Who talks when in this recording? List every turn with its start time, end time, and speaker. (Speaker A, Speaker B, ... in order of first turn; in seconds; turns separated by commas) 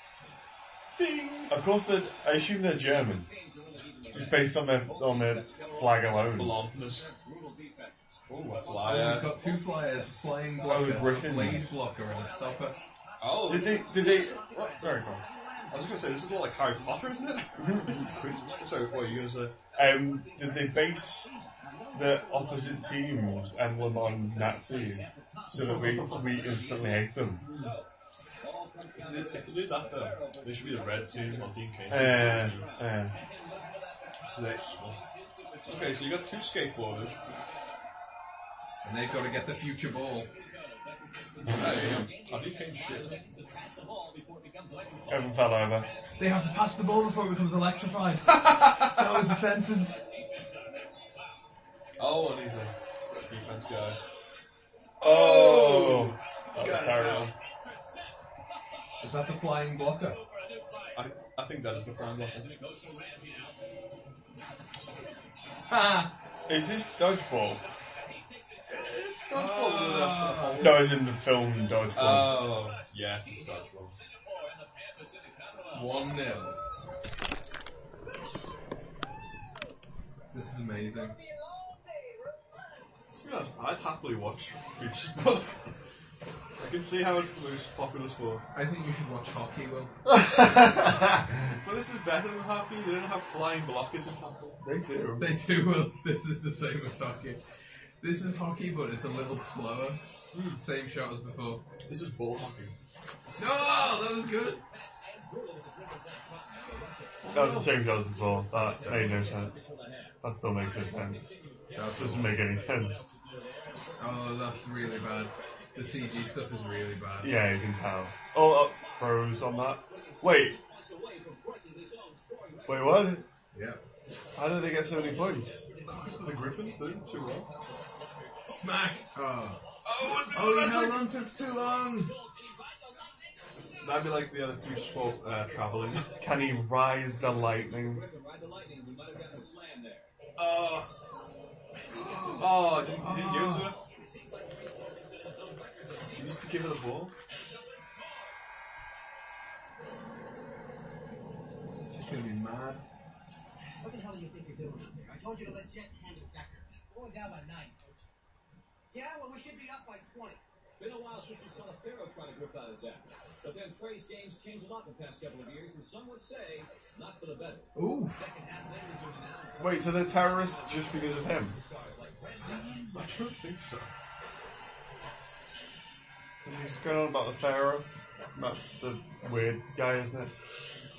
Speaker A: 1.0-1.6, Speaker B: 1.5-3.3, Speaker C: 2.8-37.8, Speaker B: 4.1-6.6, Speaker A: 6.3-7.1, Speaker A: 8.3-9.4, Speaker D: 8.8-12.8, Speaker B: 10.6-11.8, Speaker A: 13.2-14.9, Speaker B: 13.4-15.2, Speaker A: 15.7-19.6, Speaker B: 17.6-18.1, Speaker B: 19.8-21.3, Speaker B: 21.9-27.4, Speaker A: 25.5-27.7, Speaker A: 28.9-32.7, Speaker B: 31.9-33.2, Speaker A: 34.3-35.0, Speaker A: 35.6-37.2, Speaker D: 38.8-40.3, Speaker C: 40.1-47.9, Speaker A: 41.5-43.2, Speaker B: 45.1-45.9, Speaker D: 46.2-50.1, Speaker A: 48.5-49.4, Speaker C: 49.7-51.4, Speaker A: 52.0-54.0, Speaker B: 55.0-57.3, Speaker A: 55.0-57.3, Speaker C: 56.1-61.1, Speaker D: 59.0-60.2, Speaker A: 60.9-62.5, Speaker C: 61.6-63.7, Speaker D: 65.7-66.1, Speaker B: 66.5-67.6, Speaker C: 67.3-69.2, Speaker A: 68.7-71.0, Speaker D: 69.2-70.8, Speaker B: 70.6-72.6, Speaker C: 71.3-76.4, Speaker A: 71.9-74.0, Speaker D: 75.7-76.6, Speaker D: 80.3-81.2, Speaker E: 80.8-82.9, Speaker A: 83.1-85.7, Speaker A: 86.6-88.4, Speaker D: 88.5-89.9, Speaker B: 90.1-91.2, Speaker A: 91.5-94.6, Speaker B: 94.6-95.4, Speaker D: 95.2-97.4, Speaker D: 98.0-100.0, Speaker A: 100.3-100.6, Speaker D: 100.5-101.7, Speaker A: 101.9-102.8, Speaker D: 103.4-104.6, Speaker C: 103.5-123.2, Speaker A: 107.2-109.3, Speaker B: 107.3-111.4, Speaker D: 111.7-112.4, Speaker B: 111.9-113.0, Speaker D: 114.0-117.5, Speaker B: 117.2-120.6, Speaker B: 122.7-123.2, Speaker D: 123.5-123.8, Speaker B: 124.3-125.7, Speaker C: 124.4-140.1, Speaker A: 125.9-127.5, Speaker D: 128.6-129.6, Speaker A: 129.8-131.1, Speaker D: 130.2-132.1, Speaker A: 133.8-136.1, Speaker B: 136.2-138.1, Speaker A: 140.4-140.9, Speaker C: 141.7-143.2, Speaker D: 141.9-143.8, Speaker A: 142.4-143.8, Speaker C: 143.8-146.7, Speaker A: 146.1-147.2, Speaker C: 147.3-148.4, Speaker D: 151.9-152.8, Speaker E: 153.8-158.0, Speaker C: 158.9-159.6, Speaker E: 159.6-160.4, Speaker C: 160.8-173.1, Speaker D: 167.7-168.2, Speaker B: 169.6-171.6, Speaker A: 172.4-173.9, Speaker B: 176.4-180.3